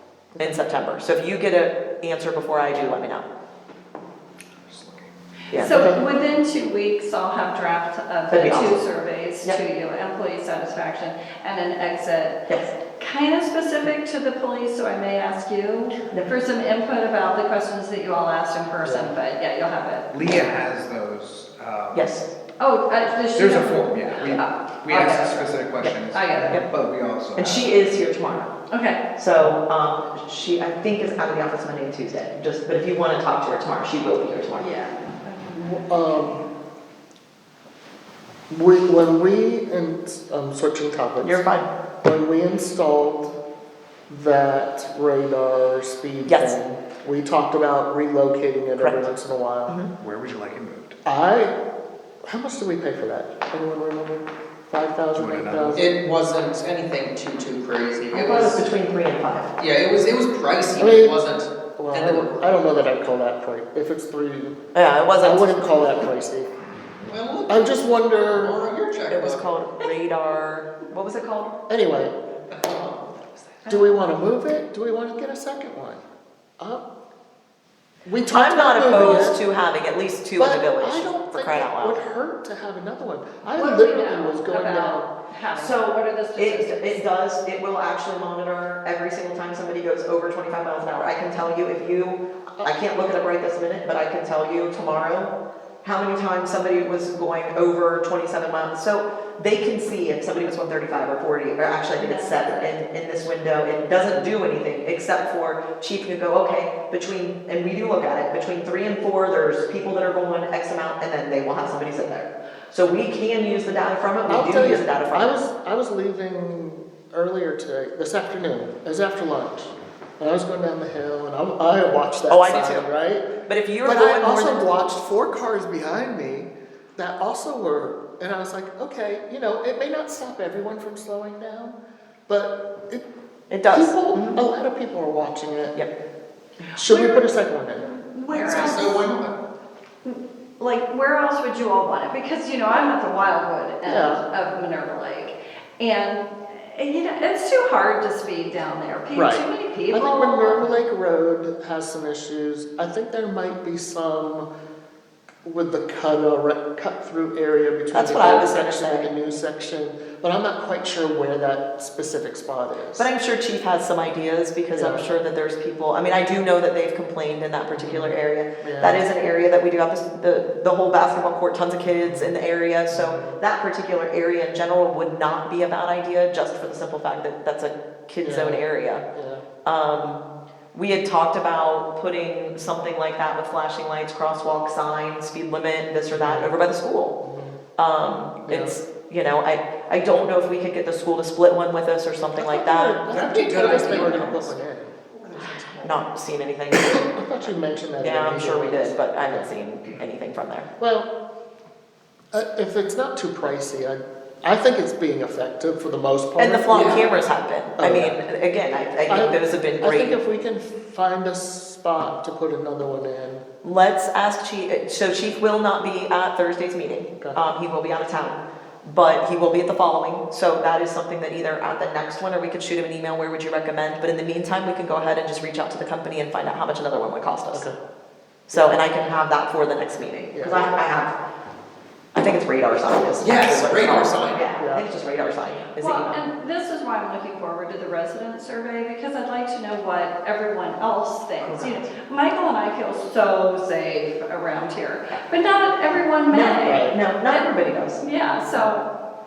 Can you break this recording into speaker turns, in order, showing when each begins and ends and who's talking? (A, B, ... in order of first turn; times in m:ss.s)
0:00.4-0:00.7 A
0:00.4-0:03.2 B
0:04.7-0:05.1 C
0:05.5-0:05.8 B
0:05.5-0:20.2 D
0:05.7-0:06.0 A
0:08.3-0:08.9 B
0:18.8-0:19.2 A
0:20.1-0:22.1 C
0:21.9-0:22.3 B
0:22.6-0:26.6 D
0:23.3-0:27.7 C
0:25.8-0:26.6 B
0:27.4-0:28.6 B
0:28.7-0:29.0 D
0:29.1-0:34.7 B
0:34.6-0:36.0 D
0:35.6-0:36.4 A
0:38.5-0:41.4 A
0:41.2-0:41.7 B
0:42.0-0:43.4 A
0:44.1-0:49.8 A
0:46.3-0:46.6 B
0:48.8-0:49.1 B
0:50.0-0:51.0 C
0:51.0-0:51.6 A
0:52.3-0:55.9 A
0:55.1-0:55.9 C
0:55.8-0:58.6 E
0:58.1-0:59.5 B
0:59.6-1:02.5 E
1:00.8-1:04.6 A
1:04.7-1:05.5 B
1:05.2-1:06.5 A
1:07.0-1:09.5 E
1:07.5-1:08.6 A
1:09.1-1:11.6 B
1:11.7-1:12.2 A
1:12.5-1:13.0 E
1:13.7-1:16.0 A
1:18.0-1:19.4 A
1:18.3-1:22.1 B
1:20.4-1:25.1 A
1:23.5-1:27.0 D
1:25.5-1:55.3 B
1:42.0-1:42.7 D
1:54.3-2:03.3 A
2:02.3-2:02.9 B
2:03.5-2:04.7 B
2:03.8-2:11.8 A
2:12.3-2:13.0 A
2:13.5-2:14.4 B
2:13.7-2:15.8 A
2:16.8-2:17.9 A
2:16.9-2:17.3 D
2:17.8-2:19.2 D
2:18.3-2:19.4 E
2:20.0-2:30.7 D
2:23.8-2:24.2 A
2:29.2-2:34.5 A
2:35.4-2:43.1 A
2:37.9-2:39.1 B
2:43.0-2:59.0 B
2:44.7-2:45.0 A
2:47.8-2:49.0 A
2:52.0-2:52.3 A
2:52.9-2:53.4 A
2:58.2-2:59.4 A
2:59.6-3:00.2 B
3:00.7-3:07.2 B
3:06.1-3:06.5 A
3:07.2-3:07.6 A
3:07.8-3:14.5 B
3:08.5-3:08.8 A
3:12.4-3:15.1 A
3:13.1-3:14.5 E
3:15.2-3:16.0 E
3:15.8-3:17.2 B
3:16.8-3:19.5 A
3:18.0-3:20.7 B
3:20.8-3:21.1 A
3:22.3-3:27.1 A
3:26.4-3:30.2 B
3:26.7-3:27.0 E
3:27.8-3:28.2 A
3:29.1-3:33.4 A
3:33.6-3:47.7 B
3:47.5-3:47.8 A
3:48.5-3:51.2 B
3:48.5-3:48.8 A
3:50.3-3:50.7 A
3:52.2-3:56.2 B
3:53.2-3:54.5 E
3:54.6-3:54.9 A
3:55.8-4:07.5 D
4:06.3-4:08.0 B
4:06.6-4:07.0 A
4:08.0-4:08.9 D